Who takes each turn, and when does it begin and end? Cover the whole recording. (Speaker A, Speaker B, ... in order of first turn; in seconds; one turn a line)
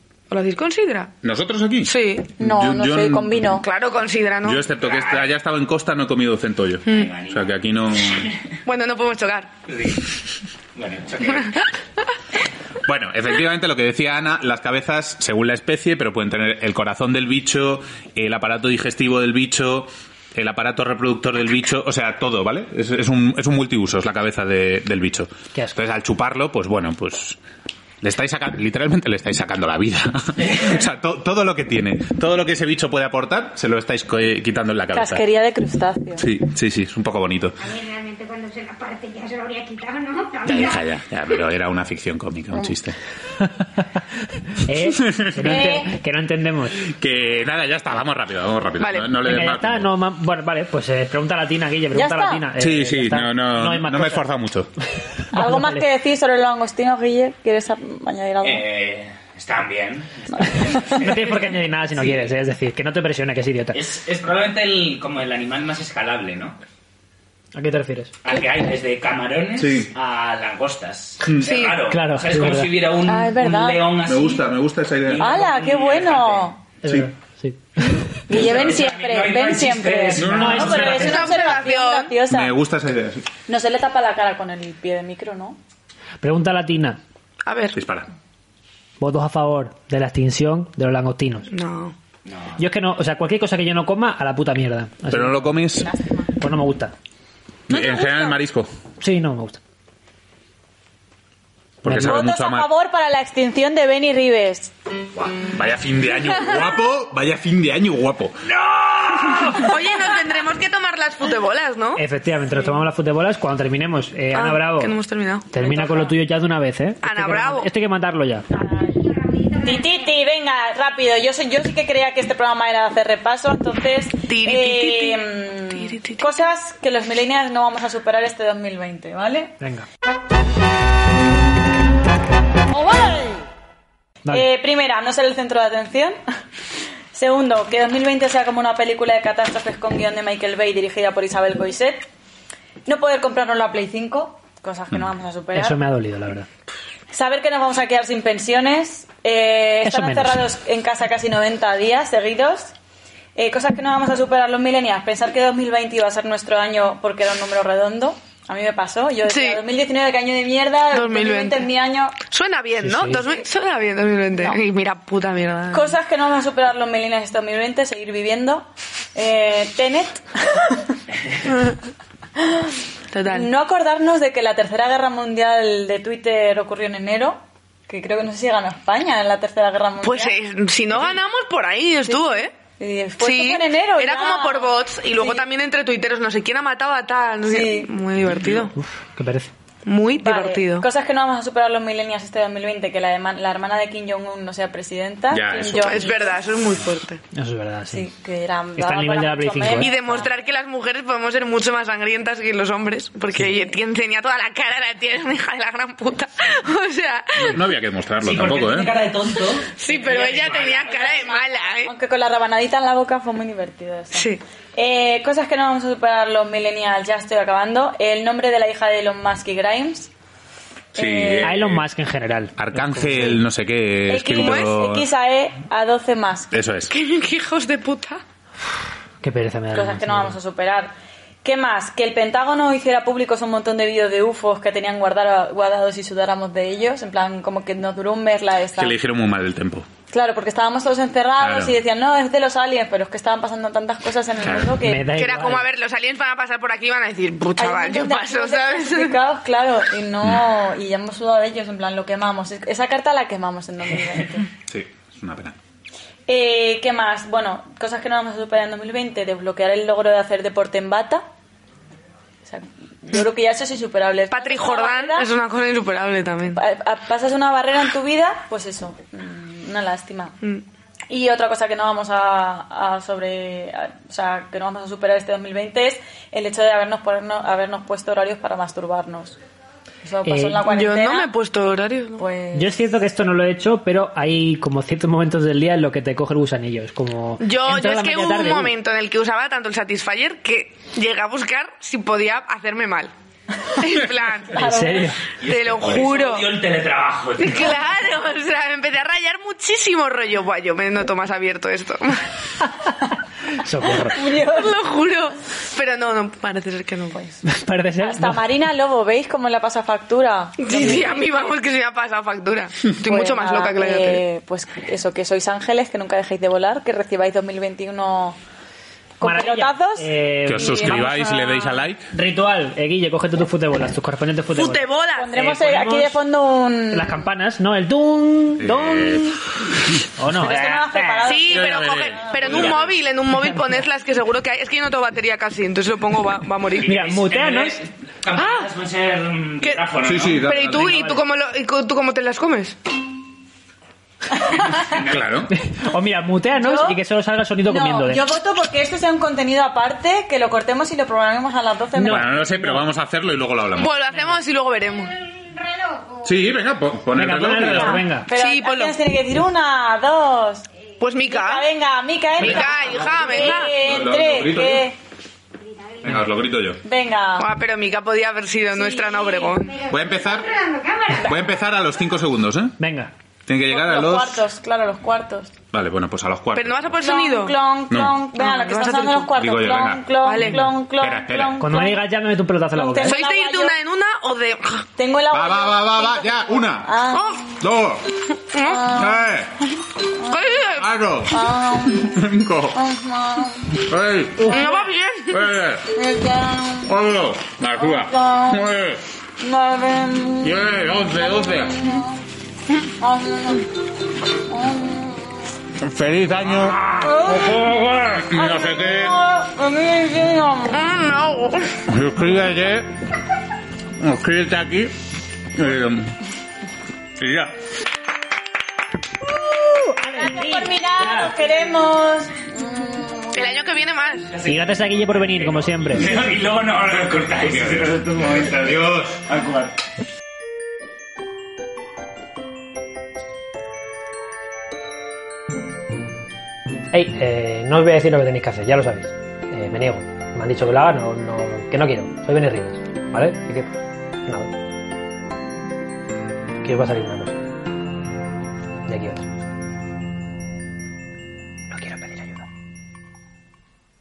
Speaker A: 0.3-1.1
Speaker B: 1.2-3.6
Speaker A: 1.8-2.3
Speaker C: 2.4-3.6
Speaker A: 3.6-4.6
Speaker B: 4.4-8.3
Speaker D: 4.8-5.3
Speaker D: 6.9-8.5
Speaker A: 8.7-9.5
Speaker D: 9.7-10.1
Speaker D: 10.7-11.6
Speaker B: 12.8-27.4
Speaker B: 28.0-35.2
Speaker C: 34.9-36.2
Speaker B: 36.2-37.6
Speaker E: 37.6-40.9
Speaker B: 40.5-43.0
Speaker F: 44.6-46.8
Speaker B: 45.1-45.5
Speaker C: 45.4-45.9
Speaker B: 46.8-49.9
Speaker A: 48.8-49.1
Speaker F: 49.2-54.3
Speaker C: 51.9-52.5
Speaker B: 52.6-54.7
Speaker F: 55.3-55.8
Speaker C: 55.3-58.6
Speaker D: 58.4-61.2
Speaker C: 60.5-61.0
Speaker F: 61.0-63.8
Speaker D: 62.0-62.3
Speaker D: 63.7-66.6
Speaker F: 67.5-68.1
Speaker D: 68.2-74.5
Speaker B: 69.6-69.9
Speaker A: 71.4-71.8
Speaker F: 71.9-72.7
Speaker C: 73.0-73.8
Speaker B: 74.0-75.3
Speaker D: 75.1-76.5
Speaker C: 75.2-76.6
Speaker F: 76.8-78.2
Speaker C: 78.3-82.5
Speaker D: 78.3-81.2
Speaker B: 80.2-80.7
Speaker F: 80.3-81.5
Speaker A: 81.0-82.2
Speaker B: 82.3-83.2
Speaker C: 83.5-85.6
Speaker F: 86.2-87.0
Speaker A: 87.4-87.8
Speaker B: 87.7-88.1
Speaker F: 89.0-91.5
Speaker A: 91.5-91.9
Speaker D: 92.2-92.7
Speaker F: 92.6-95.5
Speaker B: 95.1-95.9
Speaker C: 95.8-96.3
Speaker F: 96.4-96.9
Speaker B: 97.7-98.7
Speaker F: 99.0-99.6
Speaker B: 101.8-102.7
Speaker C: 101.9-104.7
Speaker B: 105.1-109.6
Speaker A: 109.5-112.0
Speaker F: 112.0-115.0
Speaker A: 114.3-116.1
Speaker F: 115.5-118.5
Speaker A: 117.0-117.7
Speaker C: 118.5-119.0
Speaker E: 119.0-120.1
Speaker C: 119.6-129.5
Speaker A: 124.3-126.2
Speaker F: 129.6-129.9
Speaker C: 132.8-133.3
Speaker C: 134.3-136.2
Speaker C: 137.1-142.1
Speaker C: 142.8-145.8
Speaker F: 145.5-146.5
Speaker C: 147.1-152.7
Speaker F: 149.8-150.4
Speaker C: 153.3-162.2
Speaker A: 159.3-159.6
Speaker A: 160.9-161.7
Speaker A: 162.2-165.9
Speaker F: 162.8-163.2
Speaker C: 165.7-170.9
Speaker C: 172.4-172.7
Speaker A: 173.1-173.5
Speaker C: 173.3-180.4
Speaker A: 180.0-182.5
Speaker C: 182.8-185.4
Speaker A: 183.2-188.7
Speaker C: 187.4-187.9
Speaker F: 188.7-189.5
Speaker A: 189.8-190.8
Speaker C: 190.2-196.4
Speaker B: 195.3-196.1
Speaker A: 195.8-197.2
Speaker F: 197.3-198.1
Speaker C: 197.9-200.3
Speaker F: 198.8-199.9
Speaker A: 199.8-207.6
Speaker B: 207.4-208.9
Speaker D: 208.2-211.3
Speaker A: 209.7-211.9
Speaker C: 210.8-220.1
Speaker A: 214.1-214.4
Speaker C: 220.9-221.6
Speaker B: 220.9-221.8
Speaker F: 221.4-223.4
Speaker B: 222.6-225.1
Speaker C: 224.1-226.5
Speaker A: 224.3-224.7
Speaker B: 226.5-226.9
Speaker A: 226.9-228.2
Speaker F: 229.2-230.4
Speaker C: 229.7-230.9
Speaker C: 231.4-239.0
Speaker B: 238.8-239.9
Speaker C: 240.1-245.1
Speaker B: 241.4-241.8
Speaker B: 244.4-244.7
Speaker F: 244.8-245.7
Speaker A: 245.1-249.2
Speaker C: 247.6-254.5
Speaker B: 254.7-255.6
Speaker C: 256.3-261.2
Speaker C: 262.4-265.3
Speaker A: 264.3-266.6
Speaker C: 266.6-270.3
Speaker C: 271.1-279.4
Speaker C: 280.0-281.3
Speaker F: 280.2-280.6
Speaker A: 280.6-282.2
Speaker C: 282.2-282.8
Speaker F: 282.5-288.7
Speaker A: 287.4-293.1
Speaker A: 293.8-294.7
Speaker F: 294.5-295.2
Speaker C: 294.6-295.1
Speaker D: 295.4-297.9
Speaker A: 295.5-296.5
Speaker A: 297.4-302.3
Speaker F: 303.5-304.2
Speaker C: 304.0-304.7
Speaker A: 304.3-307.2
Speaker F: 307.4-308.4
Speaker C: 308.0-311.6
Speaker A: 310.6-314.2
Speaker C: 313.0-318.4
Speaker C: 319.2-320.6
Speaker F: 319.2-326.2
Speaker B: 320.4-322.0
Speaker A: 324.5-325.4
Speaker C: 325.1-327.2
Speaker F: 326.9-329.4
Speaker B: 328.6-329.4
Speaker F: 330.1-331.3
Speaker C: 330.3-331.9
Speaker A: 331.2-336.9
Speaker B: 331.5-332.9
Speaker D: 332.4-332.8
Speaker D: 336.8-340.5
Speaker F: 336.8-337.8
Speaker A: 338.3-338.7
Speaker A: 339.6-342.8
Speaker B: 340.0-341.1
Speaker F: 340.8-341.2
Speaker D: 344.7-345.4
Speaker B: 344.9-345.5
Speaker F: 345.5-348.3
Speaker C: 346.5-347.0
Speaker C: 347.6-352.4
Speaker F: 351.9-352.8
Speaker B: 352.1-354.0
Speaker A: 353.8-355.1
Speaker E: 355.4-356.4
Speaker B: 356.2-358.0
Speaker F: 357.1-358.3
Speaker C: 357.6-360.7
Speaker A: 358.3-359.0
Speaker A: 361.0-361.7
Speaker C: 361.2-364.9
Speaker A: 362.4-363.8
Speaker F: 362.4-362.7
Speaker B: 363.7-364.9
Speaker E: 365.6-366.1
Speaker B: 366.0-366.8
Speaker C: 366.8-367.5
Speaker A: 367.4-369.7
Speaker E: 368.8-371.4
Speaker B: 369.9-370.5
Speaker B: 371.2-372.7
Speaker F: 372.8-373.1
Speaker B: 373.5-374.4
Speaker C: 373.7-375.5
Speaker B: 375.7-377.0
Speaker A: 376.5-377.6
Speaker C: 377.0-382.1
Speaker B: 377.9-378.2
Speaker A: 378.4-379.3
Speaker B: 379.4-380.3
Speaker A: 380.2-380.7
Speaker F: 380.4-380.6
Speaker B: 381.0-381.6
Speaker F: 381.6-383.2
Speaker C: 382.7-383.8
Speaker A: 383.1-384.9
Speaker C: 385.0-387.6
Speaker B: 385.3-386.9
Speaker A: 387.1-387.5
Speaker B: 387.6-388.1
Speaker A: 388.5-388.9
Speaker C: 388.6-389.2
Speaker B: 388.9-389.6
Speaker C: 390.2-390.5
Speaker A: 390.3-390.9
Speaker B: 390.8-391.4
Speaker C: 391.3-392.2
Speaker B: 392.0-392.8
Speaker C: 392.7-393.8
Speaker B: 393.8-394.6
Speaker C: 394.4-394.8
Speaker A: 394.5-395.4
Speaker B: 395.3-395.9
Speaker C: 395.9-396.9
Speaker B: 396.8-399.0
Speaker C: 397.7-398.7
Speaker C: 399.4-402.2
Speaker B: 400.4-401.7
Speaker C: 403.0-403.6
Speaker C: 404.5-405.2
Speaker B: 405.8-409.1
Speaker C: 406.9-410.8
Speaker A: 410.7-411.8
Speaker B: 411.9-412.9
Speaker B: 414.0-414.9
Speaker B: 415.5-416.1
Speaker B: 417.2-417.6
Speaker F: 419.6-421.3
Speaker C: 420.1-423.6
Speaker A: 423.3-424.3
Speaker D: 424.3-429.7
Speaker F: 424.4-426.0
Speaker B: 427.4-429.2
Speaker F: 436.9-443.7
Speaker F: 444.2-444.5
Speaker F: 446.6-447.4
Speaker F: 448.9-449.3
Speaker F: 451.7-452.4